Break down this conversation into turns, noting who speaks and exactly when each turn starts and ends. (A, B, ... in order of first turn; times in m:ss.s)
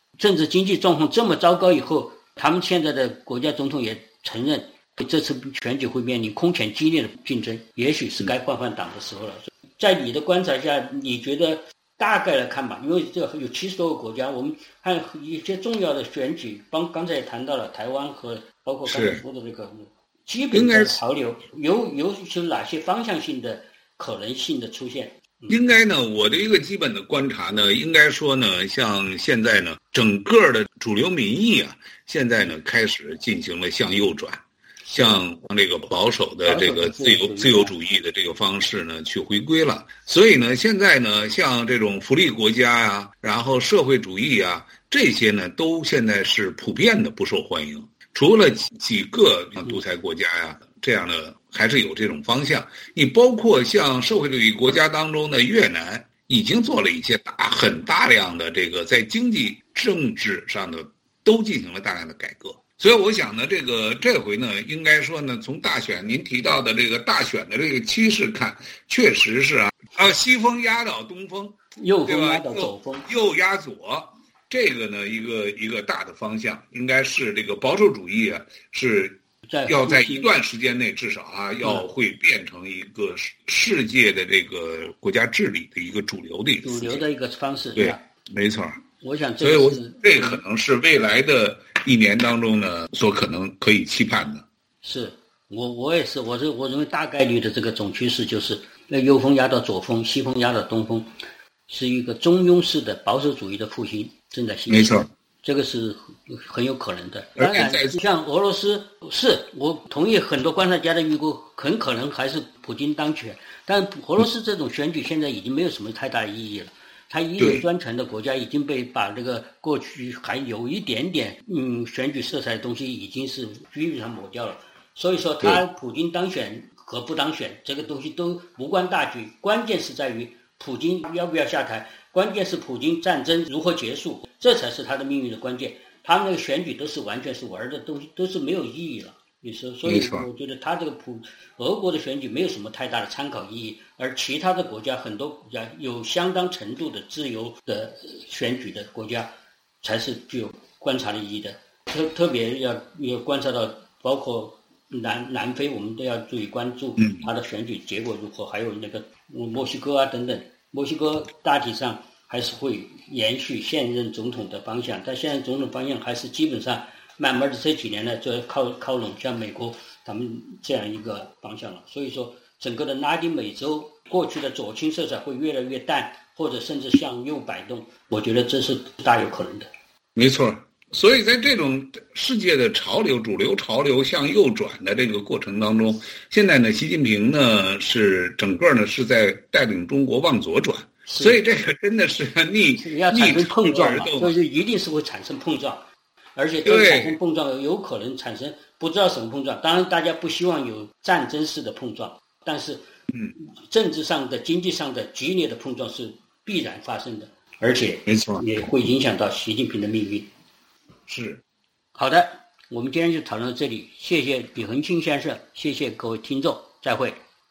0:00.2-0:25.6 A
0:18.9-0:19.2 B
0:20.5-0:21.0 B
0:25.5-1:27.0 B
0:34.9-0:35.2 A
0:36.4-0:37.7 A
1:11.8-1:13.1 A
1:19.4-1:20.3 A
1:26.6-1:28.0 A
1:27.8-1:28.8 B
1:29.0-1:30.4 A
1:29.4-1:34.4 B
1:34.8-1:41.1 A
1:41.7-2:29.3 A
1:44.7-1:45.1 B
1:47.4-1:48.0 B
1:57.4-1:57.6 B
2:19.9-2:20.2 B
2:29.8-2:59.7 A
3:00.2-3:14.3 B
3:11.1-3:11.4 A
3:12.8-3:15.8 A
3:16.4-3:22.9 A
3:16.6-3:17.2 B
3:23.4-3:30.3 A
3:28.1-3:28.4 B
3:31.1-3:31.4 B
3:32.0-3:37.2 A